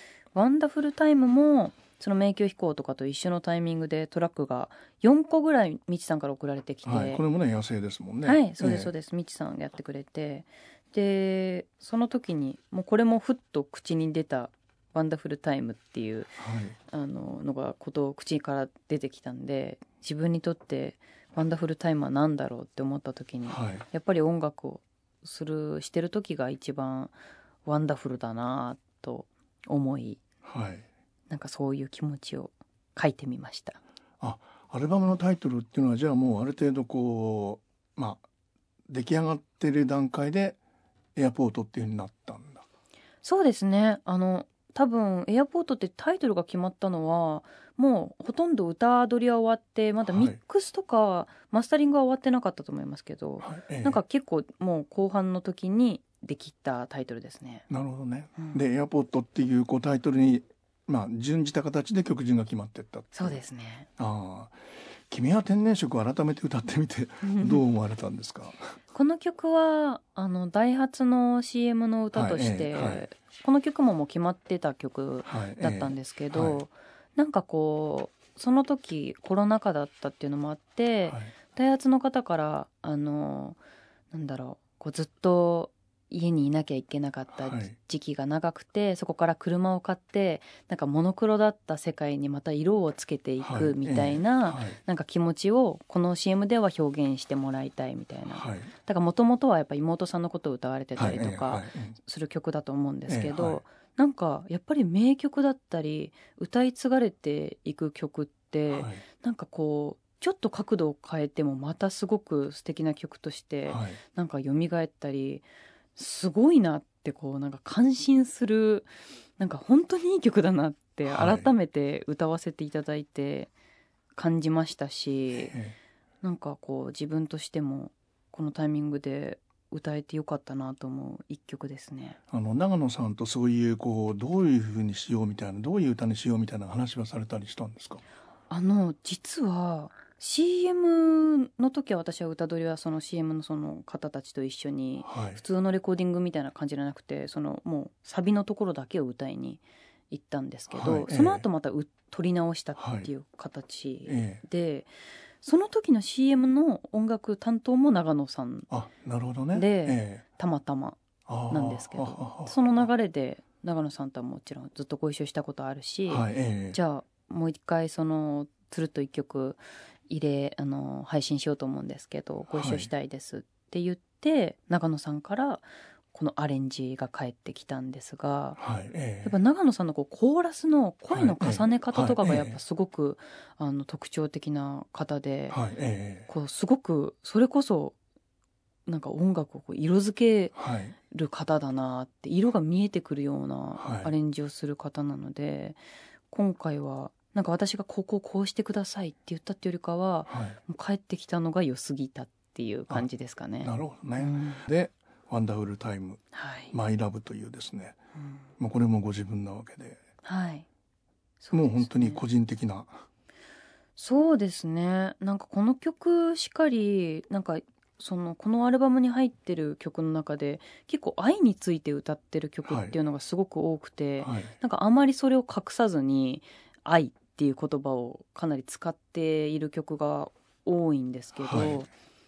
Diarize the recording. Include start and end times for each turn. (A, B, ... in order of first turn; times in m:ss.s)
0:00.3-0:07.2 A
0:06.8-0:08.9 B
0:08.2-0:27.1 A
0:16.4-0:16.8 B
0:23.5-0:23.8 B
0:27.6-0:30.2 A
0:30.4-0:30.8 B
0:31.3-0:33.8 A
0:34.2-0:38.2 B
0:38.9-0:40.6 B
0:41.1-0:42.6 B
0:43.2-0:57.7 A
0:50.1-0:50.4 B
0:53.4-0:54.0 B
0:57.7-1:03.4 B
1:03.1-1:03.9 A
1:04.0-1:04.6 B
1:05.1-1:08.8 B
1:07.2-1:07.6 A
1:08.9-1:23.6 A
1:12.1-1:13.0 B
1:15.2-1:16.6 B
1:21.1-1:21.3 B
1:24.1-2:03.5 A
1:27.4-1:27.8 B
1:33.4-1:34.8 B
1:38.3-1:38.7 B
1:41.0-1:42.0 B
1:43.1-1:43.6 B
1:48.7-1:49.0 B
1:53.7-1:54.0 B
2:01.0-2:01.5 B
2:04.1-2:05.6 A
2:05.3-2:05.8 B
2:06.2-2:12.2 A
2:12.3-2:18.0 B
2:18.5-2:34.9 A
2:25.0-2:25.4 B
2:30.7-2:31.4 B
2:32.8-2:33.1 B
2:34.0-2:34.4 B
2:35.4-2:38.7 A
2:38.7-2:40.2 B
2:39.5-2:58.6 A
2:41.3-2:42.6 B
2:46.1-2:46.8 B
2:52.5-2:52.9 B
2:58.6-2:59.3 B
2:59.2-3:05.6 A
3:01.1-3:02.6 B
3:05.5-3:06.3 B
3:06.3-3:08.0 A
3:08.8-3:10.5 A
3:10.5-3:11.0 B
3:11.1-3:15.8 A
3:13.8-3:14.1 B
3:16.3-3:24.6 A
3:20.3-3:20.6 B
3:23.6-3:28.0 B
3:26.3-3:26.7 A
3:28.2-3:28.4 A
3:28.6-3:30.0 B
3:30.2-3:30.6 A
3:31.4-3:32.2 A
3:31.5-3:33.0 B
3:34.0-3:51.9 A
3:42.7-3:42.9 B
3:44.2-3:44.5 B
3:51.4-3:51.8 B